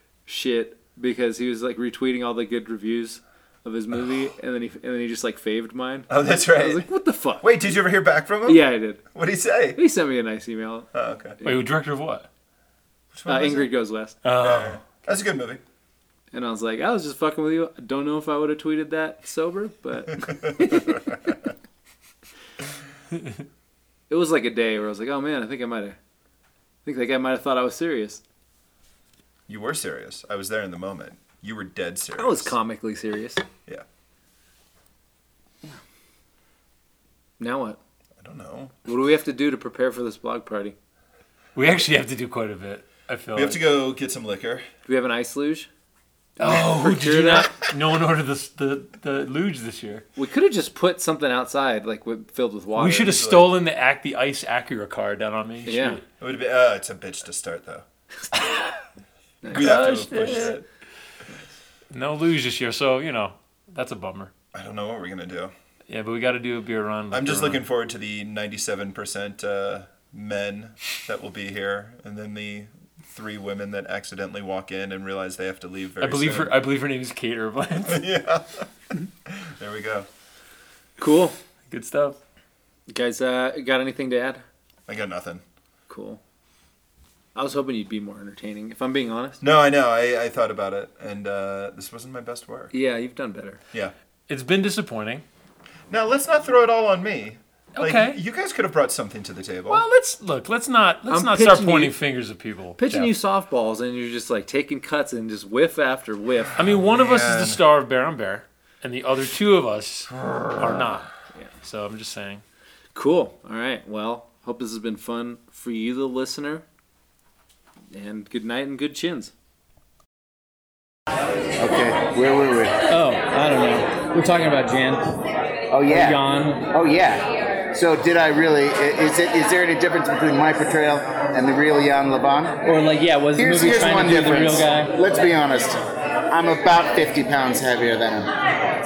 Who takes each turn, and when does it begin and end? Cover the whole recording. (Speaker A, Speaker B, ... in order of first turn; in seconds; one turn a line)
Speaker A: 0.3-7.7
Speaker B: 6.1-6.9
Speaker B: 7.4-9.8
Speaker A: 8.4-9.0
Speaker A: 9.8-10.9
Speaker B: 10.9-11.4
Speaker C: 11.4-12.3
Speaker B: 13.1-13.7
Speaker A: 13.3-14.2
Speaker C: 14.2-14.8
Speaker B: 14.4-15.6
Speaker A: 16.3-21.0
Speaker B: 20.2-21.4
Speaker A: 24.1-26.0
Speaker A: 26.9-28.2
Speaker B: 29.5-32.5
Speaker A: 32.2-33.4
Speaker A: 37.4-37.8
Speaker B: 38.2-38.7
Speaker A: 38.9-40.8
Speaker C: 41.5-43.6
Speaker B: 43.3-44.7
Speaker A: 44.9-45.7
Speaker A: 46.4-47.5
Speaker C: 46.4-50.0
Speaker A: 50.2-53.2
Speaker C: 52.8-56.0
Speaker B: 53.0-53.5
Speaker A: 55.7-56.0
Speaker B: 56.2-57.9
Speaker A: 59.4-59.9
Speaker C: 59.5-60.6
Speaker B: 59.5-60.6
Speaker C: 61.9-64.3
Speaker B: 64.5-65.5
Speaker C: 65.9-67.6
Speaker B: 67.1-76.6
Speaker C: 76.0-78.1
Speaker B: 77.9-78.7
Speaker B: 79.3-80.1
Speaker A: 81.0-81.4
Speaker C: 81.7-82.2
Speaker A: 82.9-84.4
Speaker B: 84.9-85.4
Speaker A: 85.9-86.2
Speaker A: 87.3-89.4
Speaker B: 89.4-92.7
Speaker A: 92.7-93.6
Speaker C: 94.3-95.2
Speaker B: 95.9-99.8
Speaker C: 97.8-98.2
Speaker C: 99.7-103.1
Speaker A: 101.1-102.0
Speaker A: 102.8-106.6
Speaker C: 106.6-112.4
Speaker B: 106.6-107.6
Speaker A: 113.0-116.6
Speaker A: 117.9-119.3
Speaker D: 121.6-122.7
Speaker E: 122.9-125.0
Speaker D: 125.7-132.6
Speaker E: 125.9-126.6
Speaker E: 132.6-134.9
Speaker D: 133.4-135.8
Speaker D: 136.3-138.3